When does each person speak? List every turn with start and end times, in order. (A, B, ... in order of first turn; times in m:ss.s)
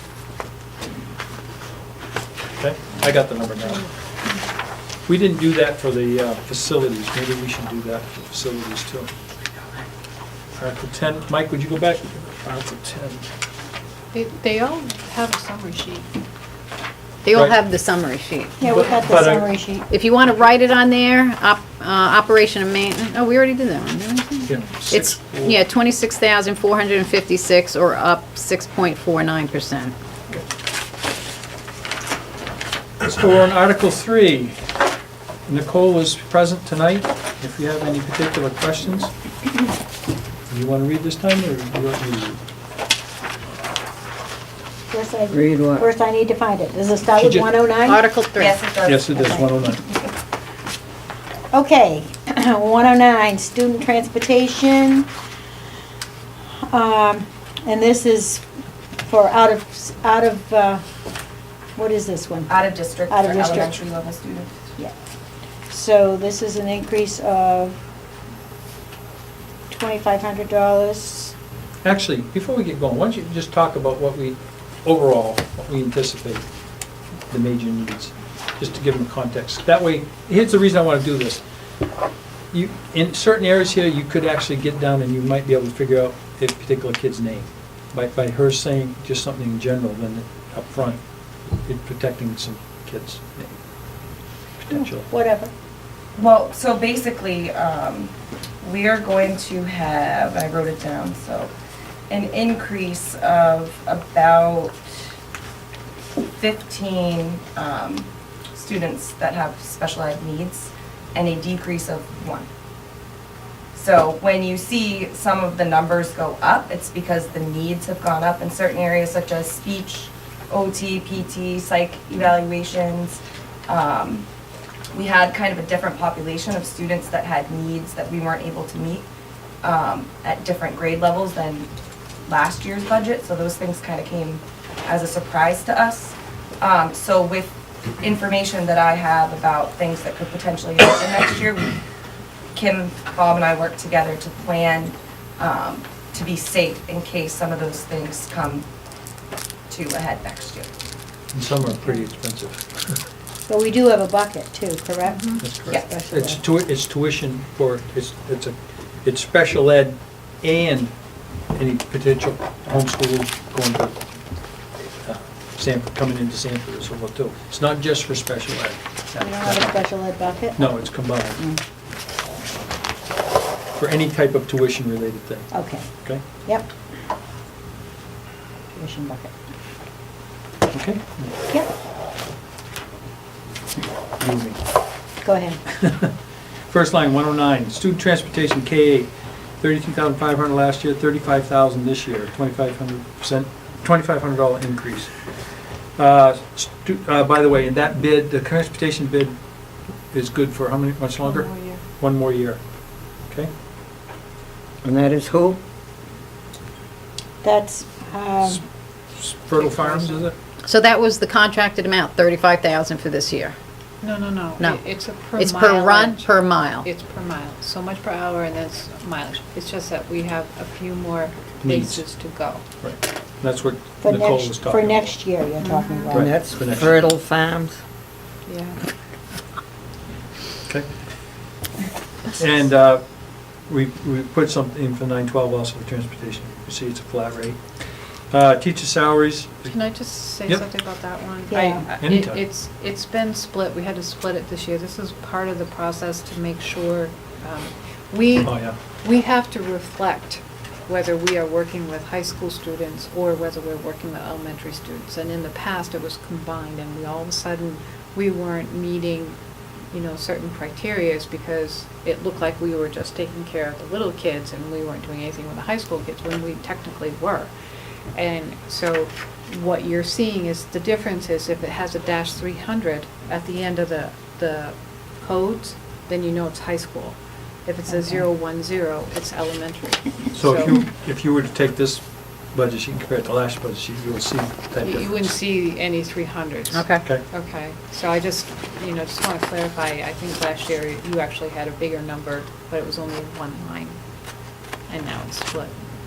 0:02.6-0:03.9 A
0:05.0-0:09.1 A
0:10.6-0:13.3 A
0:14.1-0:16.1 B
0:17.2-0:18.9 C
0:18.6-0:19.9 D
0:18.7-0:19.5 A
0:19.9-0:29.9 C
0:24.4-0:25.6 A
0:33.0-0:34.6 A
0:35.5-0:39.1 A
0:40.5-0:42.4 A
0:44.9-0:48.0 D
0:45.3-0:45.9 E
0:47.2-0:47.5 A
0:47.8-0:48.6 C
0:48.4-0:49.3 F
0:48.8-0:49.8 A
0:51.5-0:55.1 D
0:56.7-0:58.4 D
0:59.0-1:00.8 D
1:01.8-1:03.7 D
1:02.5-1:04.5 F
1:05.7-1:07.8 D
1:09.7-1:11.3 D
1:11.8-1:16.4 A
1:17.3-1:21.4 A
1:22.5-1:31.0 A
1:31.6-1:33.6 A
1:34.6-1:35.1 A
1:35.1-1:35.5 D
1:36.2-1:41.5 F
1:42.1-1:44.8 F
1:46.4-1:52.5 F
1:53.7-2:04.2 F
2:04.9-2:09.0 F
2:09.6-2:11.7 F
2:12.3-2:21.7 F
2:22.5-2:28.6 F
2:29.7-2:30.7 F
2:31.3-2:32.7 A
2:33.5-2:36.4 D
2:35.1-2:35.4 B
2:35.4-2:40.9 A
2:41.5-2:44.0 A
2:45.0-2:49.8 A
2:49.2-2:50.7 D
2:50.6-2:51.4 A
2:53.8-2:55.5 A
2:55.5-2:56.7 D
2:58.7-2:59.3 D
3:00.7-3:01.3 A
3:03.8-3:04.6 A
3:05.2-3:05.6 D
3:05.7-3:06.1 A
3:06.7-3:15.2 A
3:16.0-3:19.4 A
3:20.1-3:22.6 A
3:21.2-3:21.8 B
3:24.8-3:25.6 E
3:27.4-3:28.6 D
3:29.2-3:30.3 A
3:29.6-3:30.2 B
3:30.6-3:33.6 C
3:34.0-3:42.6 B
3:35.3-3:36.9 C
3:41.6-3:42.0 A
3:42.8-3:45.1 A
3:44.0-3:46.3 D
3:45.6-3:46.1 B
3:46.1-3:47.0 A
3:46.1-3:47.8 E
3:48.4-3:48.8 B
3:52.3-3:59.7 A
3:59.7-4:19.4 B
4:01.5-4:01.8 D
4:02.0-4:02.4 A
4:08.4-4:08.8 A
4:19.9-4:27.5 B
4:28.1-4:40.8 B
4:40.3-4:45.1 A
4:44.8-4:54.0 B
4:46.7-4:47.0 C
4:54.9-4:55.7 B